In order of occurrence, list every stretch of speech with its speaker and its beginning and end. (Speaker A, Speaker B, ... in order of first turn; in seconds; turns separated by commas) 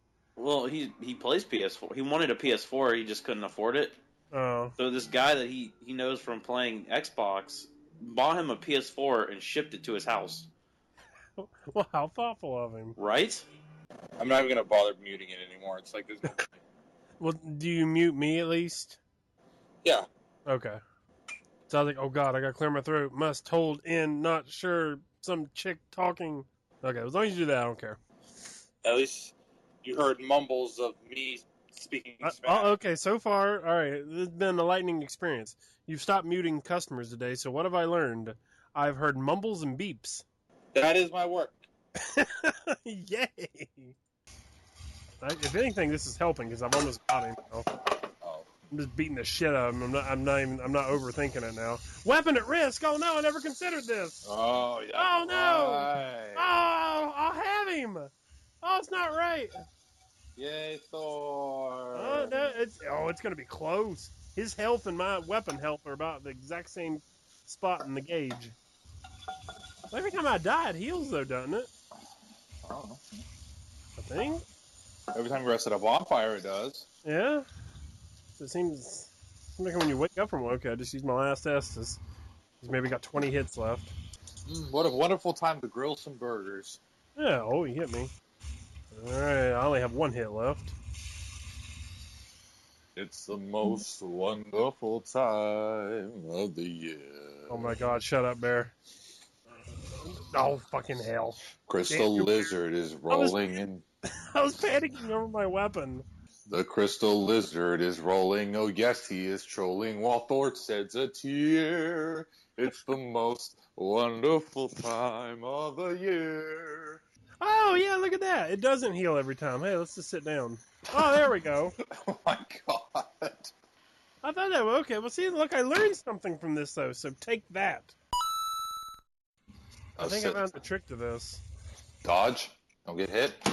Speaker A: 0.3-4.0, Speaker B: 4.3-4.7, Speaker A: 4.8-10.5, Speaker B: 11.4-13.0, Speaker A: 13.0-13.4, Speaker C: 14.2-16.5, Speaker B: 17.2-19.0, Speaker B: 20.4-20.8, Speaker B: 21.7-28.0, Speaker C: 28.8-32.7, Speaker B: 32.2-40.2, Speaker C: 40.7-41.6, Speaker B: 42.0-43.9, Speaker B: 45.2-47.7, Speaker C: 48.2-48.5, Speaker B: 48.7-54.2, Speaker C: 54.2-56.6, Speaker B: 54.9-58.1, Speaker B: 58.6-59.5, Speaker C: 60.4-62.4, Speaker B: 61.9-68.5, Speaker B: 69.9-71.7, Speaker C: 72.6-73.1, Speaker B: 74.0-74.4, Speaker C: 75.1-76.9, Speaker B: 77.0-77.5, Speaker B: 78.4-82.0, Speaker B: 82.6-83.9, Speaker C: 84.5-86.8, Speaker B: 87.2-88.1, Speaker B: 88.9-90.7, Speaker C: 93.0-97.7, Speaker B: 97.5-98.7, Speaker B: 100.0-102.5, Speaker C: 101.7-103.8, Speaker B: 103.1-103.4, Speaker B: 104.1-106.0, Speaker C: 106.5-117.0, Speaker B: 117.4-121.8, Speaker C: 120.9-121.2, Speaker C: 121.8-123.5, Speaker B: 124.2-127.9, Speaker C: 130.0-130.4, Speaker B: 130.0-131.4, Speaker C: 132.0-133.4